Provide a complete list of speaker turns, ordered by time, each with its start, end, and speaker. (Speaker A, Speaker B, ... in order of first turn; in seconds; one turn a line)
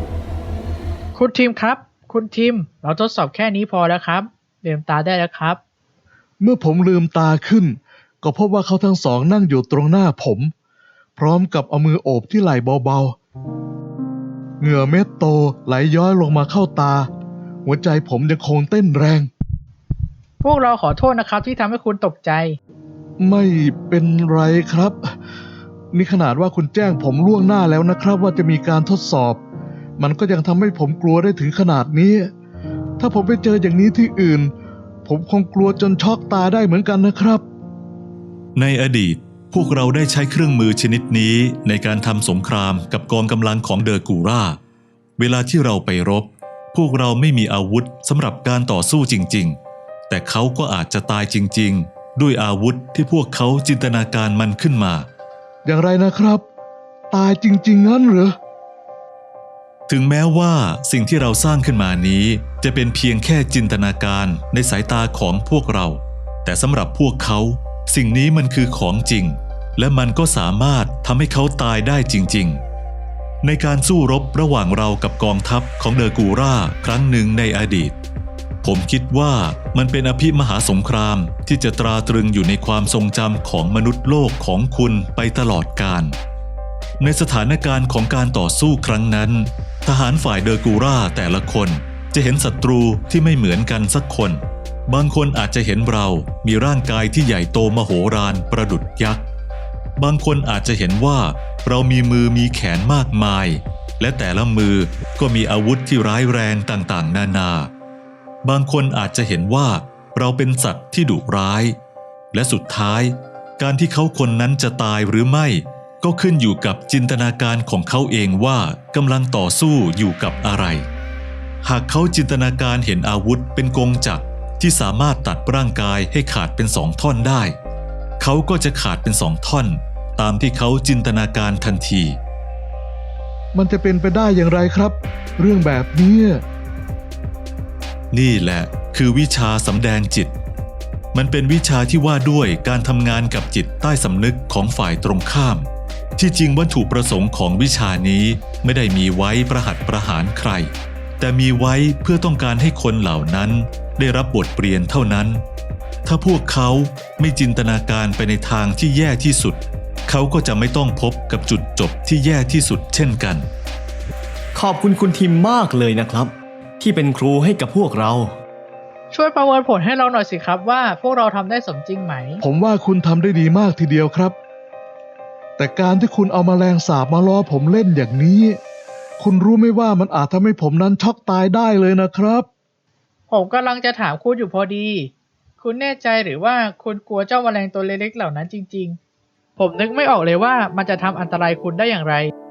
Speaker A: 1.1-5.6
Speaker B: 6.4-10.5
Speaker B: 11.2-13.2
Speaker B: 14.6-17.1
Speaker B: 17.6-19.3
Speaker A: 20.4-22.6
Speaker B: 23.2-25.1
Speaker B: 25.9-29.4
Speaker B: 30.0-32.3
Speaker B: 33.0-34.5
Speaker B: 35.1-37.4
Speaker C: 38.6-44.6
Speaker C: 45.2-55.1
Speaker B: 55.6-56.4
Speaker B: 57.1-58.4
Speaker C: 59.9-72.6
Speaker C: 73.4-78.0
Speaker C: 78.6-86.2
Speaker C: 87.0-99.2
Speaker C: 100.0-107.7
Speaker C: 108.4-111.8
Speaker C: 112.3-120.9
Speaker C: 121.6-127.6
Speaker C: 128.2-132.2
Speaker B: 133.5-136.4
Speaker C: 138.1-140.3
Speaker C: 141.1-155.4
Speaker C: 156.1-163.5
Speaker D: 164.6-168.4
Speaker A: 169.1-172.4
Speaker B: 172.4-174.4
Speaker B: 175.6-178.6
Speaker B: 179.2-182.5
Speaker A: 183.3-189.0
Speaker A: 189.6-192.3